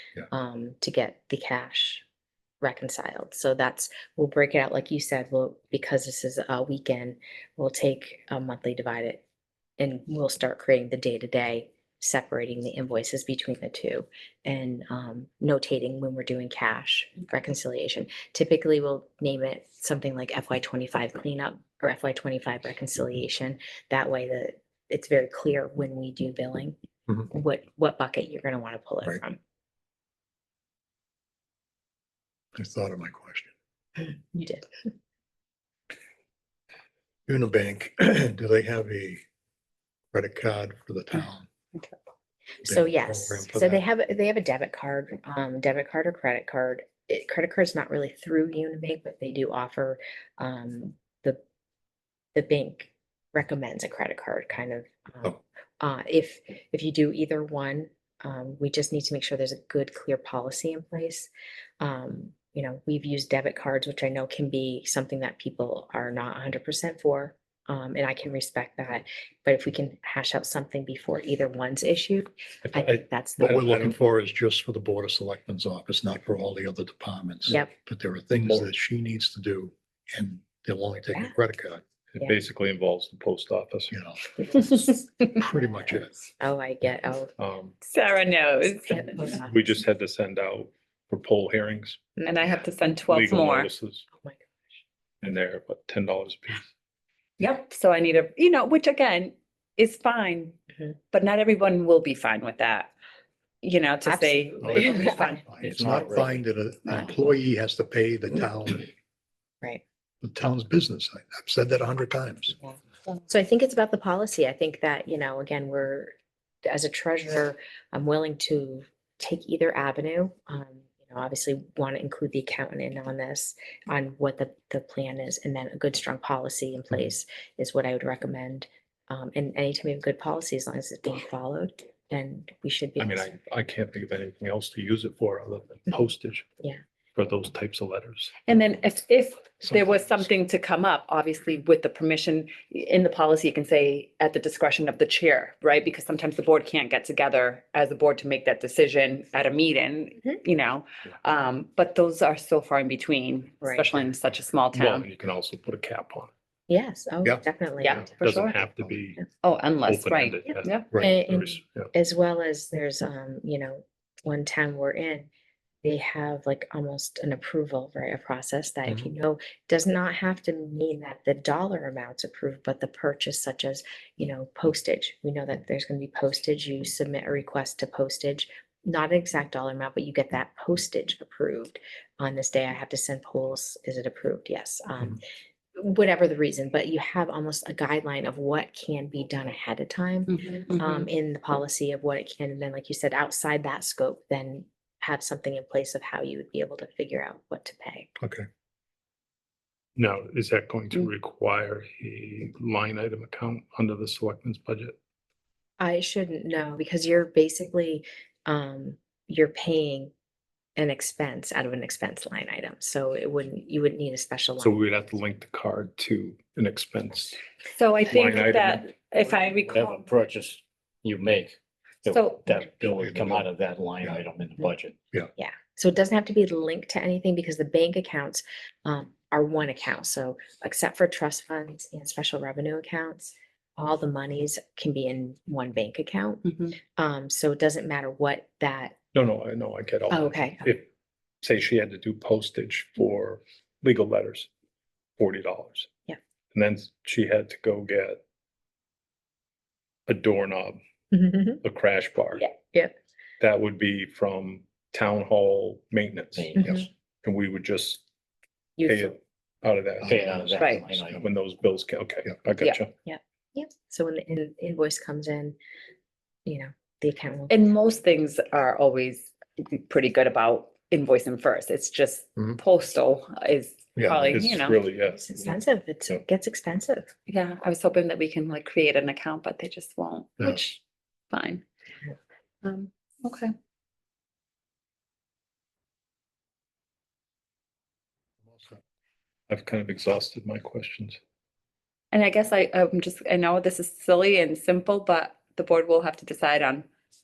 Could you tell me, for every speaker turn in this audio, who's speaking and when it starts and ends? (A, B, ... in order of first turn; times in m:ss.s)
0:00.3-0:02.0 A
0:02.6-0:09.2 A
0:09.8-0:26.7 A
0:27.3-0:29.4 A
0:32.6-0:33.5 B
0:34.0-0:34.7 A
0:37.3-0:39.2 B
0:40.1-0:41.4 B
0:42.6-0:51.4 A
0:42.7-0:43.8 B
0:52.3-1:13.6 A
1:12.7-1:13.9 C
1:13.4-1:21.8 B
1:22.1-1:23.9 C
1:23.9-1:24.2 B
1:24.6-1:25.0 A
1:25.4-1:26.1 B
1:25.8-1:27.3 A
1:27.4-1:27.7 C
1:27.8-1:29.4 D
1:28.9-1:29.6 A
1:29.4-1:32.0 C
1:32.2-1:33.7 D
1:33.1-1:34.0 C
1:34.2-1:34.5 A
1:35.2-1:36.7 C
1:37.4-1:40.6 D
1:41.1-1:42.9 D
1:43.6-1:45.6 D
1:44.0-1:45.4 A
1:44.6-1:48.9 B
1:45.6-1:46.4 E
1:50.2-1:52.6 B
1:52.6-1:56.1 A
1:56.6-2:13.4 A
2:13.0-2:16.5 C
2:17.1-2:18.4 C
2:18.4-2:35.1 D
2:33.6-2:33.9 A
2:34.7-2:36.3 C
2:36.7-2:38.1 A
2:37.8-2:38.6 D
2:38.2-2:39.2 C
2:39.4-2:40.8 D
2:39.8-2:41.9 C
2:40.5-2:45.3 A
2:45.8-3:05.2 A
3:05.8-3:18.1 A
3:10.4-3:11.0 D
3:18.2-3:18.4 B
3:20.0-3:25.0 C
3:25.8-3:30.1 A
3:30.8-3:34.8 A
3:34.6-3:37.4 C
3:37.7-3:40.0 D
3:38.1-3:38.9 C
3:39.7-3:45.0 E
3:42.1-3:42.5 D
3:43.1-3:43.4 B
3:45.4-3:59.0 A
3:59.1-4:00.9 C
4:00.1-4:00.7 A
4:01.4-4:04.5 C
4:05.2-4:05.9 C
4:06.5-4:08.2 C
4:10.1-4:10.8 C
4:11.1-4:11.6 A
4:11.6-4:12.5 C
4:13.4-4:16.5 C
4:16.3-4:16.8 E
4:17.2-4:18.0 C
4:18.8-4:19.1 A
4:18.8-4:22.9 C
4:20.0-4:21.2 E
4:20.1-4:21.0 B
4:20.6-4:20.9 D
4:23.0-4:25.6 A
4:26.4-4:27.6 A
4:27.5-4:34.8 D
4:34.0-4:34.4 B
4:34.2-4:35.6 C
4:35.1-4:37.1 A
4:37.3-4:40.8 D
4:40.4-4:40.6 B
4:41.3-4:41.6 D
4:42.6-4:43.5 D
4:48.4-4:48.8 B
4:49.5-4:51.2 C
4:52.1-4:56.9 D